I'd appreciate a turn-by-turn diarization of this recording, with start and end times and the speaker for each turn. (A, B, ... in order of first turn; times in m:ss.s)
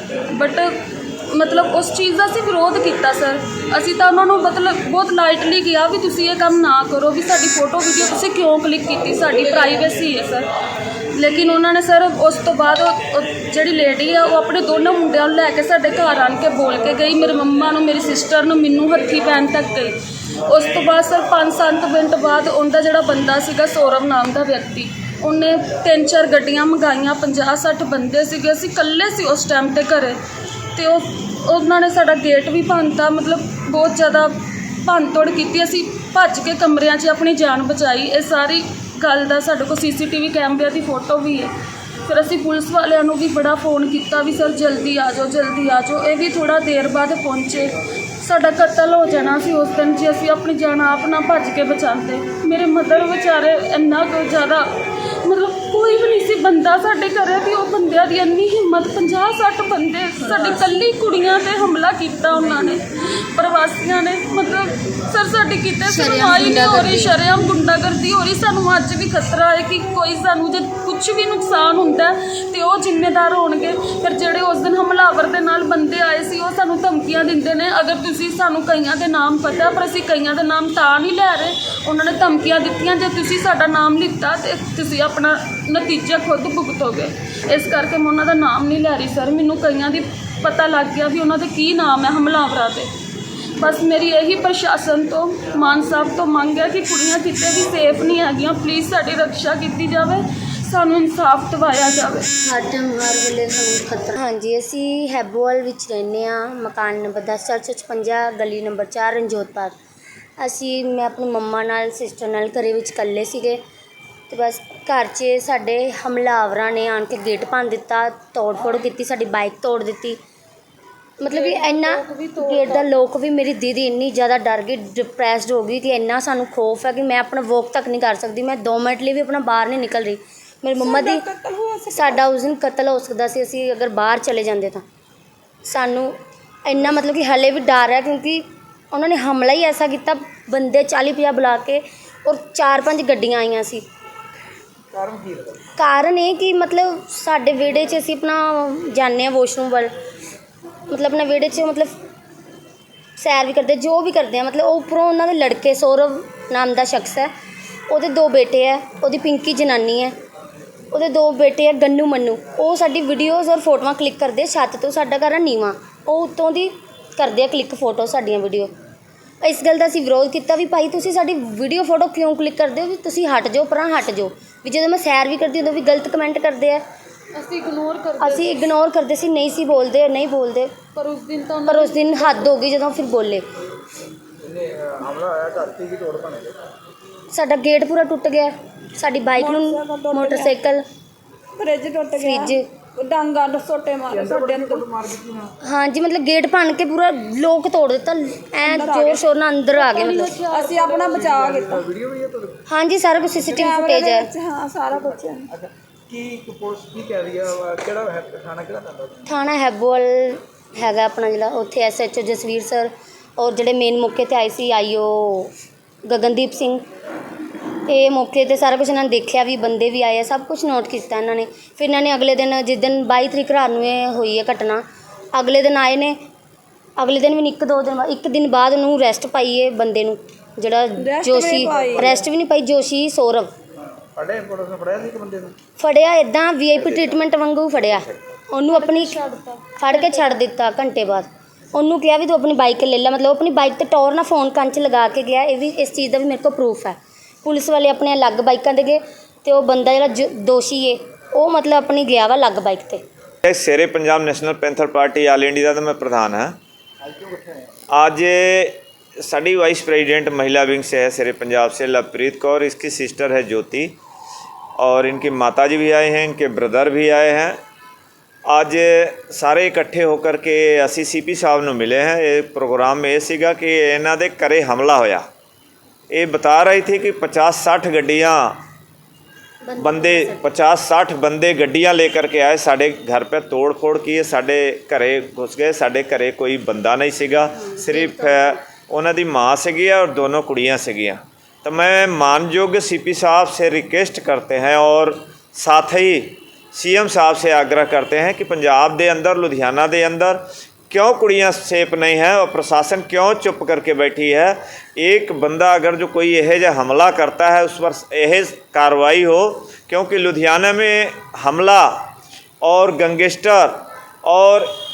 0:00.3-0:00.8 A
0:01.3-0:10.5 A
0:11.1-0:30.2 A
0:30.7-0:41.5 A
0:42.1-1:32.9 A
1:05.9-1:07.2 B
1:33.6-1:42.3 A
1:42.4-1:49.7 B
1:50.4-1:53.6 B
1:54.3-2:00.2 B
2:01.2-2:11.3 B
2:01.2-2:02.9 A
2:10.8-2:12.2 C
2:11.9-2:14.8 B
2:15.7-2:16.1 B
2:16.7-2:23.8 B
2:24.9-2:25.6 D
2:25.8-2:29.9 B
2:30.9-2:31.9 B
2:33.2-2:37.3 B
2:37.9-2:40.1 B
2:40.9-2:48.7 B
2:49.4-2:56.8 B
2:57.3-2:58.6 A
2:58.2-3:00.7 B
3:00.9-3:02.5 A
3:01.7-3:03.4 B
3:04.4-3:06.6 D
3:07.3-3:10.8 B
3:09.4-3:10.5 C
3:11.6-3:14.9 C
3:12.1-3:12.7 B
3:14.1-3:15.6 D
3:15.6-3:20.4 B
3:18.7-3:19.2 C
3:19.8-3:21.3 A
3:20.5-3:21.8 C
3:20.8-3:22.6 D
3:22.7-3:24.3 B
3:23.3-3:23.7 D
3:23.7-3:25.5 C
3:24.9-3:29.3 D
3:29.3-3:35.5 B
3:36.1-3:36.8 B
3:37.9-3:44.8 B
3:45.3-3:46.2 B
3:47.0-3:53.5 B
3:51.0-3:52.2 C
3:51.5-3:52.0 D
3:53.8-3:55.6 D
3:55.8-3:59.2 B
3:56.8-3:57.0 E
3:58.7-4:00.3 A
3:59.8-4:13.0 B
4:13.4-4:16.6 E
4:17.0-4:17.7 D
4:17.9-4:23.9 E
4:24.8-4:27.6 E
4:28.5-4:35.2 E
4:36.1-4:38.6 E
4:39.6-4:40.5 B
4:39.8-5:12.1 E
4:47.5-4:48.6 B
5:12.6-5:14.7 E